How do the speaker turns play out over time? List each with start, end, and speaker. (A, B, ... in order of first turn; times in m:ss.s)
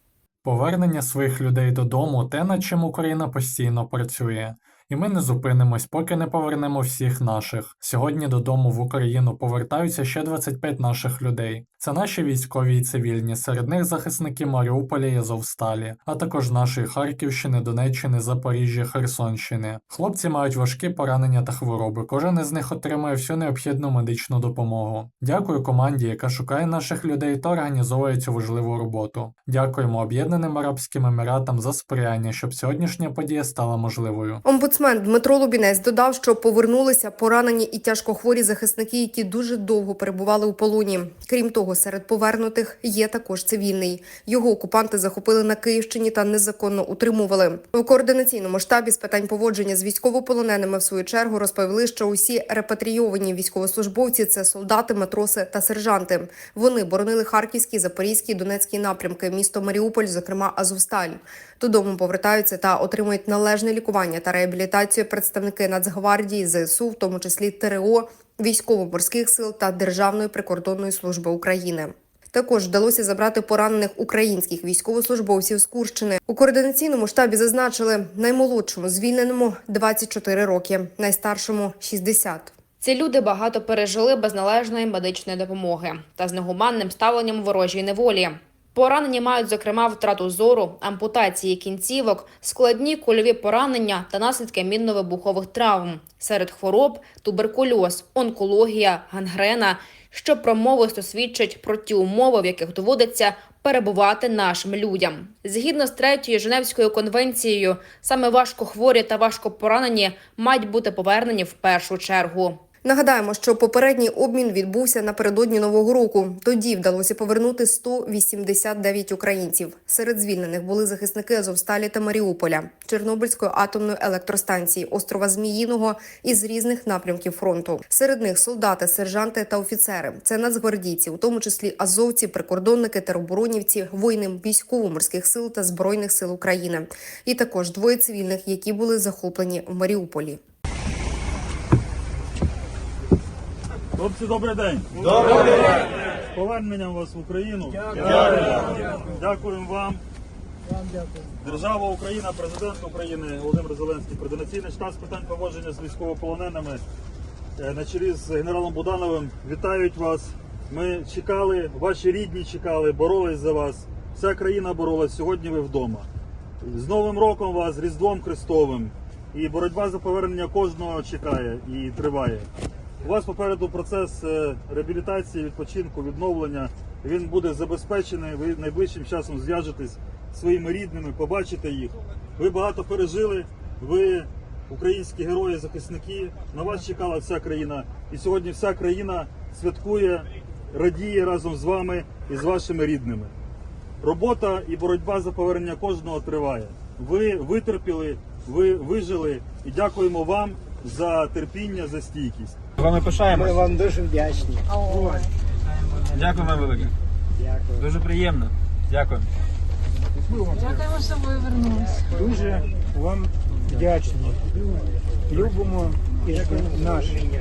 0:00.4-0:34.4 A
0:34.4-1:22.5 B
1:22.8-1:52.6 C
1:52.8-2:20.4 B
2:24.0-2:30.0 D
2:31.3-2:36.8 D
2:37.6-2:46.1 D
2:46.6-2:52.5 D
2:53.0-3:13.3 D
3:14.0-3:22.6 D
3:22.8-3:23.4 E
3:23.7-3:25.2 F
3:26.1-3:26.9 E
3:27.9-3:29.2 E
3:32.2-3:33.2 F
3:33.8-3:34.4 F
3:35.5-3:37.2 F